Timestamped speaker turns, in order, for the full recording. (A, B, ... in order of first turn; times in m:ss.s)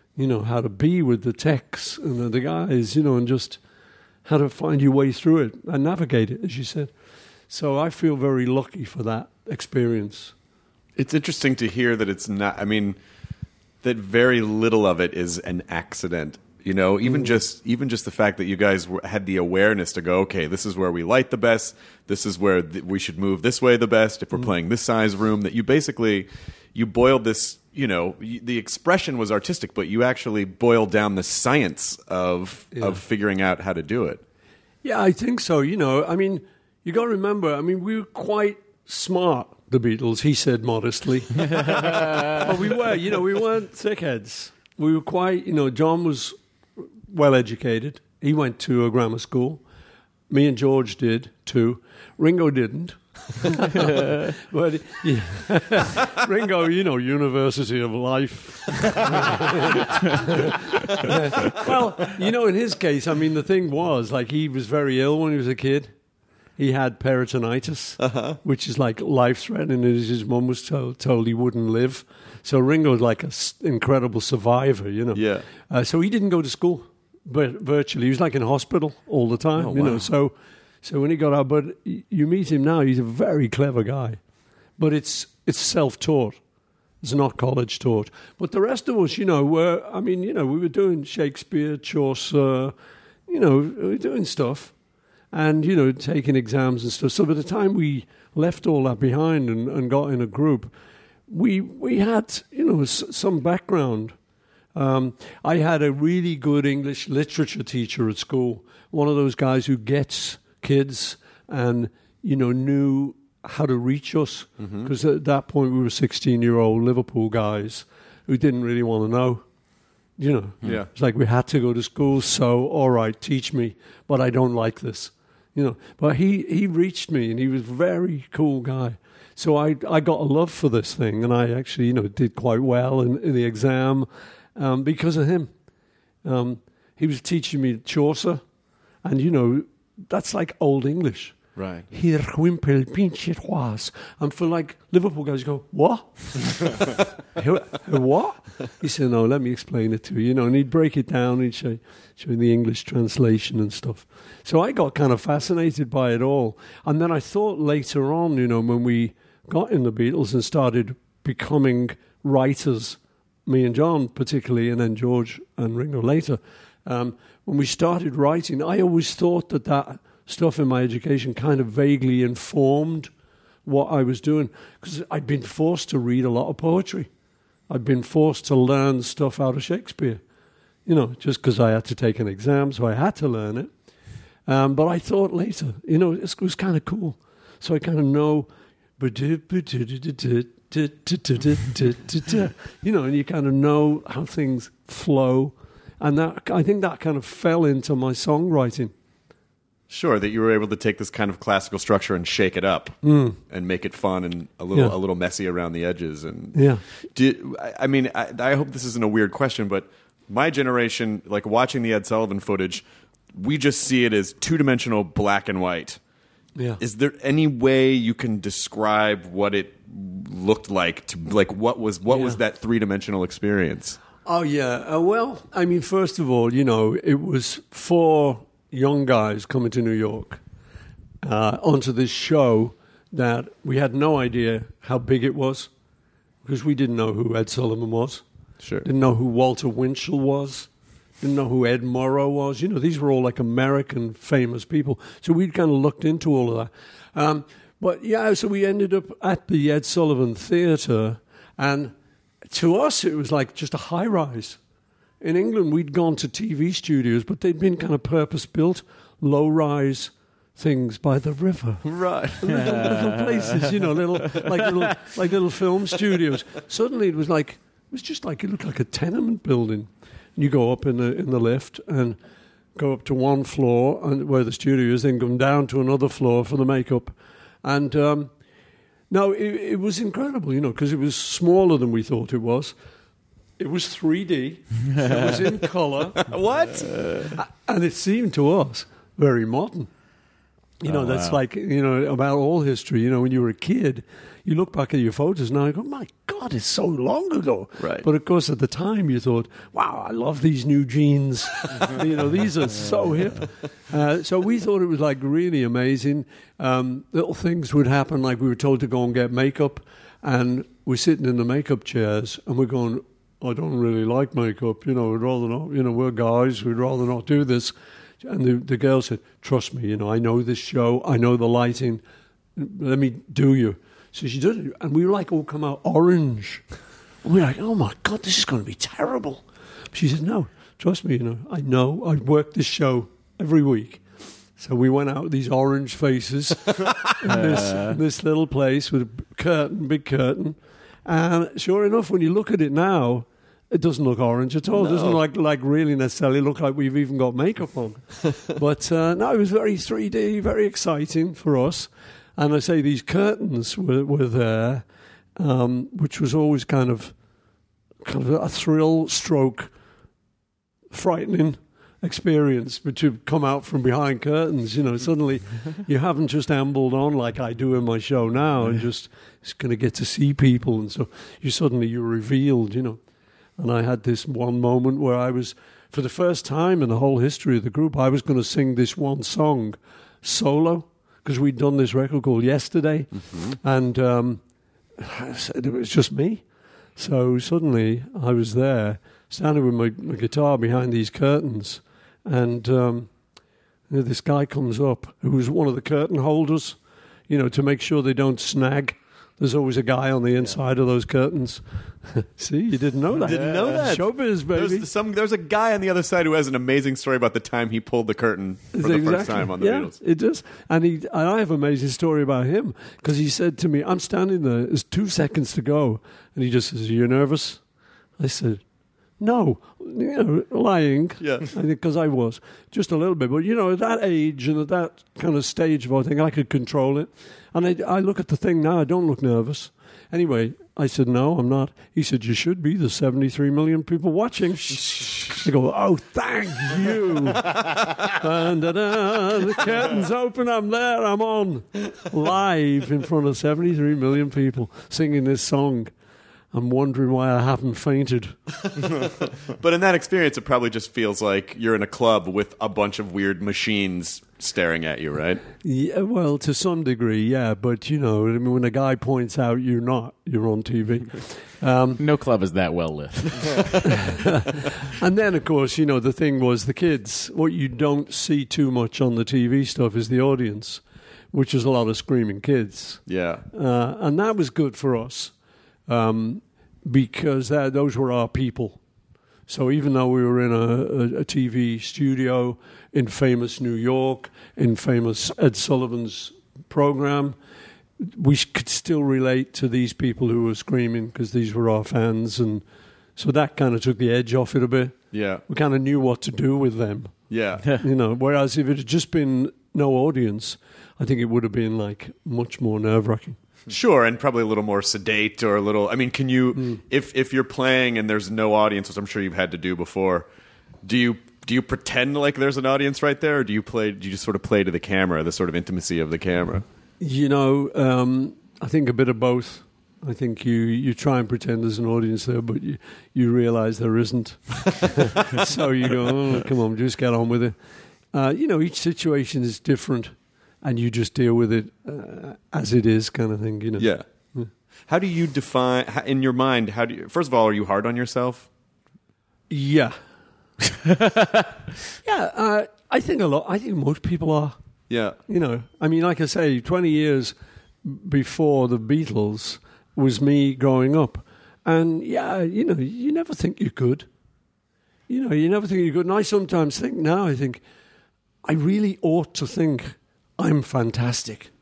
0:00.2-0:03.6 A
0:04.2-0:06.9 A
0:07.5-0:10.3 A
0:11.0-0:13.0 B
0:13.8-0:34.2 B
0:17.1-0:17.3 A
0:32.7-0:33.0 A
0:34.8-0:46.4 A
0:47.1-0:49.6 A
0:50.3-1:05.9 A
1:06.6-1:24.2 A
1:08.0-1:08.4 B
1:15.1-1:15.5 B
1:19.6-1:20.1 B
1:24.8-1:26.4 A
1:27.0-1:32.7 A
1:33.3-1:34.7 A
1:35.3-1:40.7 A
1:41.3-1:44.2 A
1:44.8-1:59.4 A
1:54.6-1:54.9 B
2:00.2-2:15.5 A
2:00.6-2:00.9 B
2:16.2-2:18.4 A
2:19.0-2:53.1 A
2:21.6-2:21.9 B
2:53.6-2:57.1 A
2:57.7-3:00.2 A
3:00.9-3:03.7 A
3:04.5-3:18.9 A
3:19.9-3:36.0 B
3:23.0-3:23.4 A
3:26.5-3:26.8 A
3:36.8-3:44.0 B
3:42.1-3:42.4 A
3:44.2-3:50.4 A
3:51.2-3:55.7 A
3:56.4-3:58.2 A
3:58.6-3:58.9 B
3:58.8-4:00.7 A
4:01.2-4:11.9 A
4:12.5-4:14.6 A
4:15.2-4:32.2 A
4:21.8-4:22.9 B
4:22.8-4:23.4 C
4:32.8-4:38.3 A
4:39.1-4:42.7 A
4:43.6-4:46.3 A
4:46.3-4:47.4 B
4:46.9-4:47.3 C
4:47.4-4:49.9 A
4:50.8-5:22.0 A
4:50.9-4:51.4 C
4:57.8-4:58.1 B
5:22.6-5:26.6 A
5:27.2-5:34.0 A
5:34.6-5:57.2 A
5:37.2-5:38.0 C
5:44.7-5:45.2 B
5:58.0-5:59.7 A
6:00.9-6:13.0 A
6:13.6-6:24.4 A
6:23.2-6:23.6 B
6:25.0-6:26.4 A
6:27.0-6:33.1 A
6:33.9-6:44.9 A
6:43.2-6:43.7 C
6:43.2-6:50.0 B
6:48.7-6:57.6 A
6:58.2-6:58.6 A
6:59.2-7:25.9 A
7:01.2-7:01.5 B
7:14.9-7:15.2 B
7:26.5-7:28.4 A
7:29.6-7:35.4 B
7:35.6-7:42.0 A
7:42.0-7:44.1 C
7:44.9-7:55.3 A
7:53.1-7:53.5 B
7:55.9-7:58.8 A
7:59.5-8:07.4 A
8:08.0-8:12.6 A
8:13.2-8:23.4 A
8:15.1-8:15.4 B
8:17.3-8:17.7 B
8:23.7-8:30.3 B
8:26.6-8:26.8 A
8:30.8-8:36.7 B
8:37.0-8:47.6 A
8:48.1-8:54.5 A
8:53.8-8:54.1 B
8:54.9-8:58.5 B
8:59.5-9:00.0 A
9:02.0-9:04.6 A
9:04.9-9:05.2 B
9:05.3-9:14.1 A
9:15.1-9:17.6 A
9:18.4-9:21.5 A